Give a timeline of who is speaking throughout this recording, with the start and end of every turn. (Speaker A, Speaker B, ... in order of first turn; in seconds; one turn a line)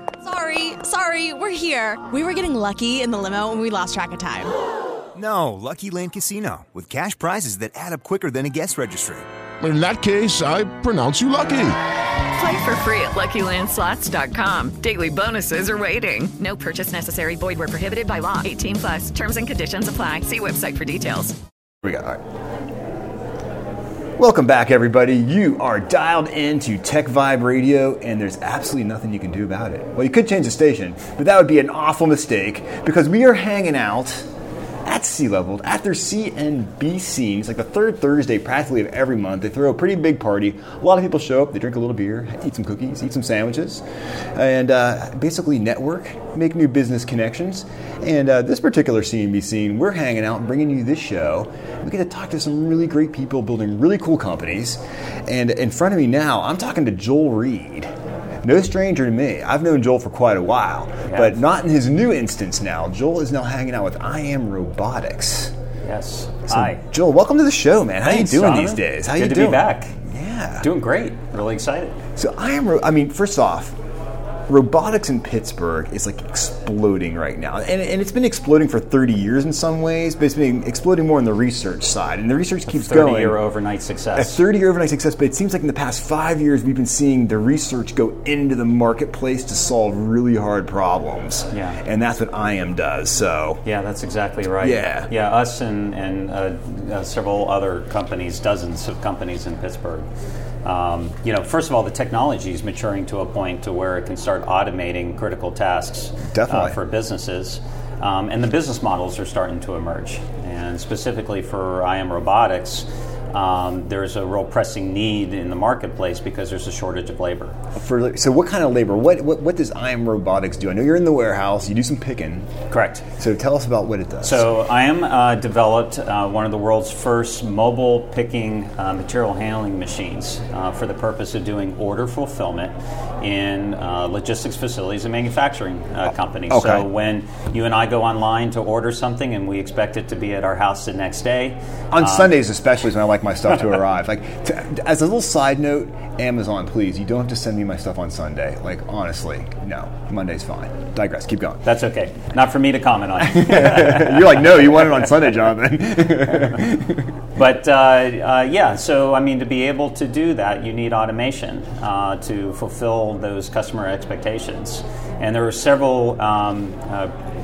Speaker A: 0.3-4.5
Speaker B: 5.2-9.3
Speaker C: 9.6-11.8
Speaker D: 12.3-21.4
Speaker E: 21.8-22.2
Speaker E: 24.2-34.3
Speaker E: 34.9-43.8
Speaker E: 44.4-57.9
Speaker E: 58.4-65.5
Speaker F: 61.1-61.4
Speaker F: 65.8-66.8
Speaker E: 66.5-70.7
Speaker F: 68.0-69.9
Speaker F: 70.6-72.0
Speaker E: 72.2-73.8
Speaker E: 74.5-83.4
Speaker F: 82.7-84.4
Speaker E: 84.2-93.6
Speaker F: 91.5-91.8
Speaker F: 93.6-100.1
Speaker E: 94.6-95.1
Speaker F: 100.6-117.5
Speaker E: 106.3-106.8
Speaker E: 117.8-122.5
Speaker F: 122.7-123.0
Speaker E: 123.2-124.5
Speaker F: 124.2-142.3
Speaker E: 136.5-136.9
Speaker E: 141.9-151.6
Speaker F: 151.7-155.3
Speaker E: 153.2-157.1
Speaker F: 157.4-167.1